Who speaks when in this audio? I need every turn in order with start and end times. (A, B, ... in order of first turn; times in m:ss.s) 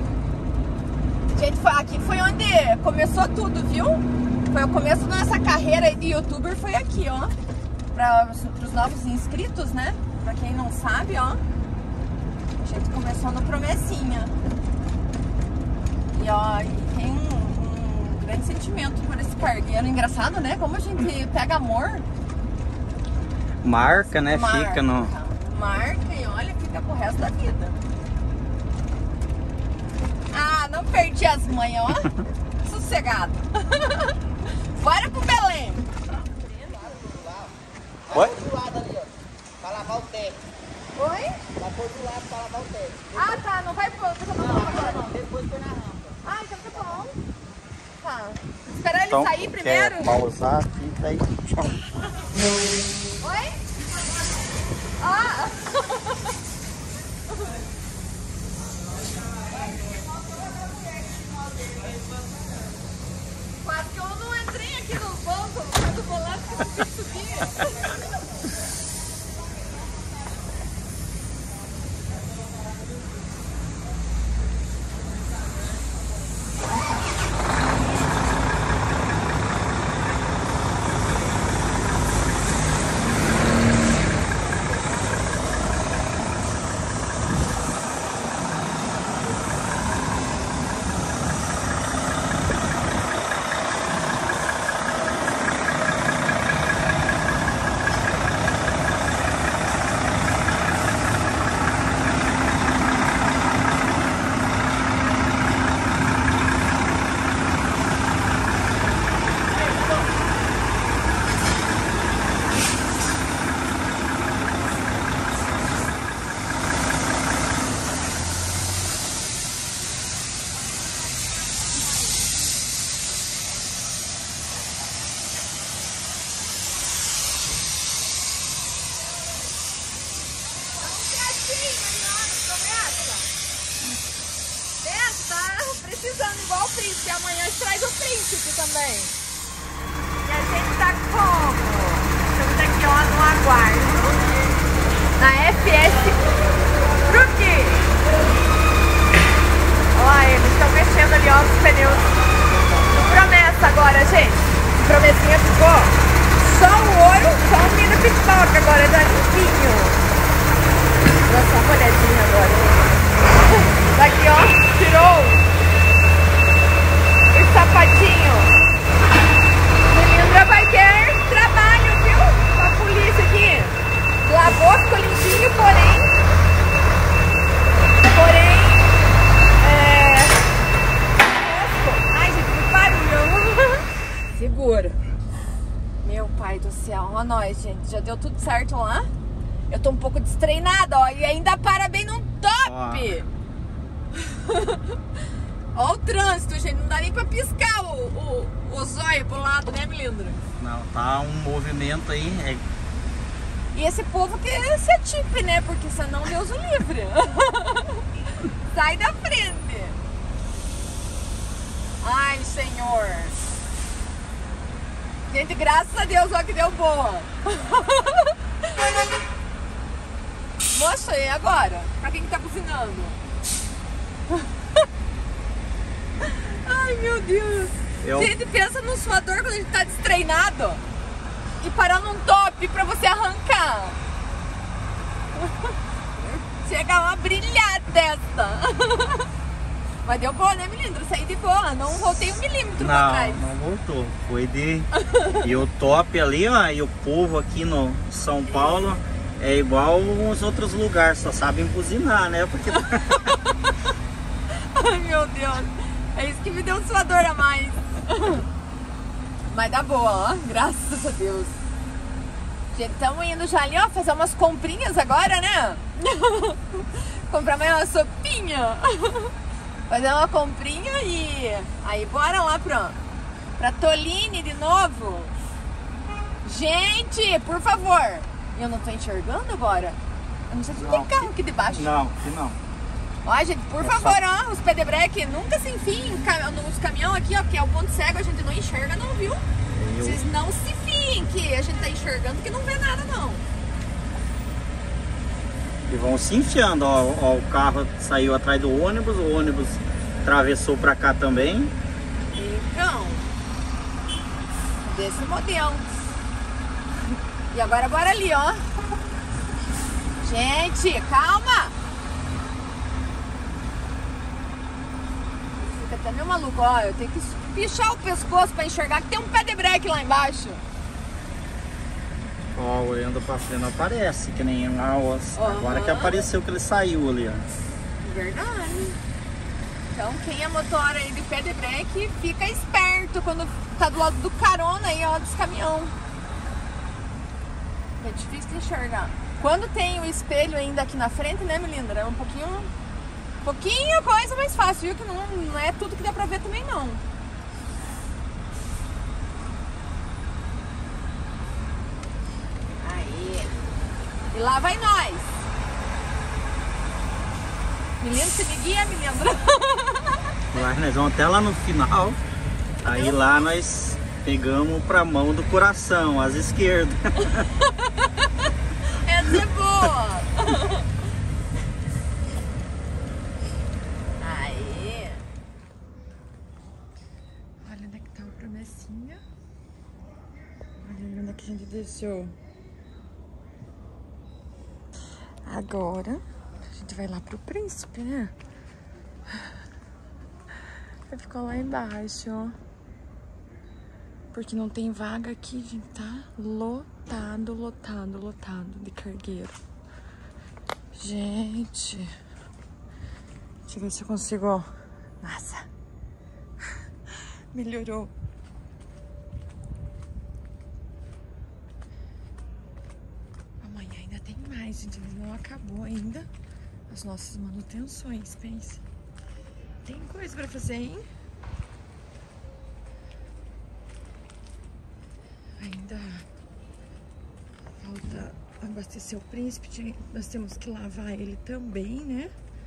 0:01.3-0:07.3 A
0:07.9-0:11.4 A
0:12.6-0:14.3 A
0:16.1-0:22.0 A
0:23.6-0:25.1 B
0:23.8-0:27.8 A
0:30.3-0:37.1 A
0:38.1-0:38.4 B
0:38.1-0:39.1 C
0:39.6-0:40.3 C
0:40.9-0:41.4 A
0:41.6-0:43.1 C
0:43.1-0:45.1 A
0:45.1-0:46.0 C
0:46.2-0:47.2 A
0:48.0-0:50.2 A
0:49.1-0:51.6 B
0:53.2-0:53.6 A
0:55.0-0:56.3 A
1:03.6-1:08.0 A
2:10.6-2:13.3 A
2:14.8-2:19.1 A
2:20.2-2:24.3 A
2:25.2-2:26.3 A
2:27.0-2:27.9 A
2:29.9-2:32.2 A
2:32.9-2:40.0 A
2:41.2-2:43.0 A
2:43.5-2:45.5 A
2:47.3-2:48.6 A
2:49.8-2:56.1 A
2:58.0-2:58.9 A
2:59.6-3:00.4 A
3:01.2-3:05.0 A
3:06.0-3:09.1 A
3:09.7-3:13.3 A
3:12.6-3:13.1 B
3:14.1-3:15.0 A
3:15.7-3:20.4 A
3:20.6-3:22.6 B
3:23.7-3:30.0 A
3:32.0-3:33.4 A
3:35.3-3:38.4 A
3:40.7-3:43.2 A
3:44.3-3:44.8 A
3:46.2-3:50.8 A
3:48.0-3:48.3 B
3:51.6-3:54.0 A
3:55.4-3:59.3 A
4:00.0-4:03.4 A
4:02.8-4:13.2 B
4:05.0-4:05.5 A
4:08.5-4:08.9 A
4:12.7-4:13.8 A
4:14.5-4:18.5 A
4:19.5-4:21.6 A
4:22.7-4:29.3 A
4:29.9-4:33.0 A
4:33.6-4:35.3 A
4:36.4-4:41.9 A
4:40.8-4:42.6 B
4:43.2-4:49.5 A
4:43.8-4:44.2 B
4:49.6-4:50.2 B
4:50.0-4:53.4 A
4:55.9-5:01.7 B
5:02.3-5:03.3 A
5:04.8-5:05.9 A
5:07.5-5:08.6 A
5:10.2-5:11.8 A
5:15.5-5:20.6 A
5:22.5-5:27.4 B
5:25.3-5:26.3 A
5:28.0-5:29.0 A
5:29.9-5:36.0 A
5:38.0-5:42.7 A
5:43.4-5:47.0 A
5:52.8-5:53.6 A
5:54.3-5:55.5 A
5:58.0-6:00.3 A
6:00.5-6:02.2 B
6:02.8-6:07.5 B
6:02.8-6:03.4 A
6:07.6-6:08.3 A
6:08.9-6:10.9 A
6:14.2-6:15.2 A
6:17.6-6:19.2 A
6:20.8-6:22.4 A
6:25.4-6:26.2 A
6:26.7-6:28.3 A
6:31.1-6:32.6 A
6:34.3-6:39.6 A
6:40.9-6:42.1 A
6:43.7-6:44.7 A
6:45.2-6:45.7 A
6:47.5-6:48.1 A
6:53.6-6:56.3 A
6:56.9-6:58.8 A
6:59.8-7:01.0 A
7:05.6-7:06.2 A
7:07.8-7:12.3 A